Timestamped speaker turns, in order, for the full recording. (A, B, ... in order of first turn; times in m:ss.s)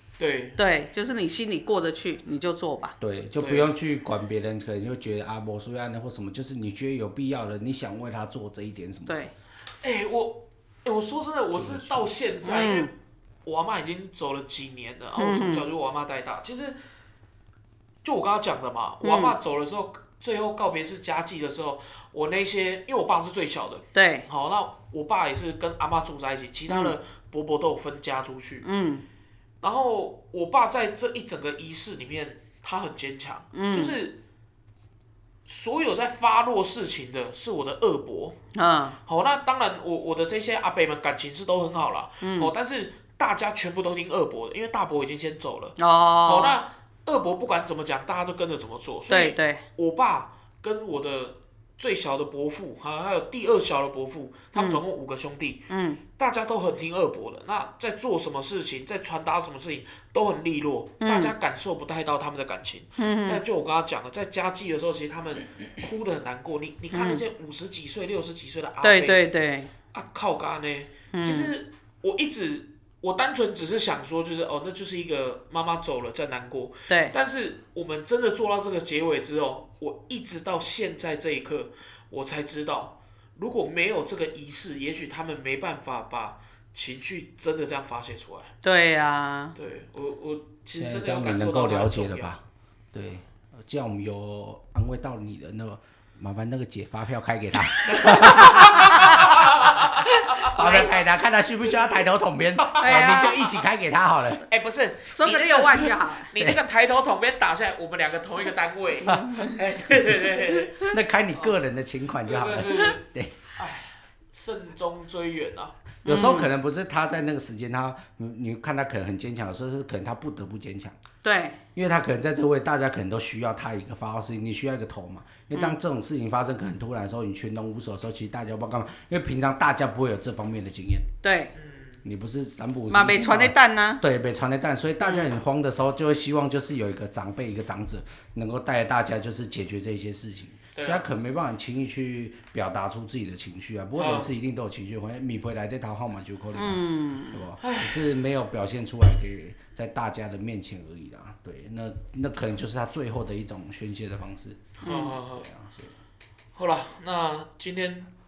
0:00.2-0:00.6 A
0:00.6-0:03.0 B
0:03.0-0:09.2 C
0:03.4-0:03.7 A
0:09.1-0:09.3 B
0:09.8-0:12.9 A
0:11.5-0:12.1 C
0:12.4-0:12.9 B
0:13.4-0:16.8 A
0:15.2-0:15.7 B
0:18.0-0:28.7 A
0:19.0-0:19.4 B
0:23.9-0:24.3 B
0:26.7-0:27.0 B
0:28.6-0:29.0 B
0:29.6-0:34.2 A
0:33.5-0:34.0 B
0:35.5-0:38.4 A
0:38.6-0:39.0 B
0:39.1-1:09.2 A
0:42.2-0:42.5 B
0:45.8-0:46.6 B
0:49.1-0:49.6 B
0:54.6-0:54.8 B
0:55.7-0:56.0 B
1:01.0-1:01.3 B
1:03.0-1:03.4 B
1:06.9-1:07.2 B
1:08.8-1:09.7 B
1:09.9-1:28.5 A
1:11.1-1:11.5 B
1:16.9-1:17.2 B
1:28.6-1:29.6 B
1:29.6-1:32.4 A
1:30.7-1:32.4 C
1:32.9-1:44.4 C
1:37.9-1:40.5 A
1:38.5-1:39.3 B
1:40.2-1:40.9 B
1:42.6-1:43.4 A
1:42.8-1:43.5 B
1:44.5-1:50.8 A
1:45.1-1:46.3 B
1:49.1-1:49.5 C
1:49.1-1:49.6 B
1:50.1-1:53.4 C
1:52.2-1:53.0 A
1:53.6-1:55.8 A
1:56.0-1:56.5 B
1:56.0-2:01.0 C
2:01.2-2:01.6 B
2:01.8-2:11.1 C
2:11.2-2:11.5 B
2:11.6-2:12.0 A
2:12.0-2:35.9 C
2:12.9-2:14.0 B
2:20.8-2:21.0 A
2:24.0-2:24.3 A
2:26.6-2:27.4 B
2:27.6-2:28.0 A
2:34.8-2:35.5 A
2:34.8-2:35.2 B
2:36.6-2:38.1 A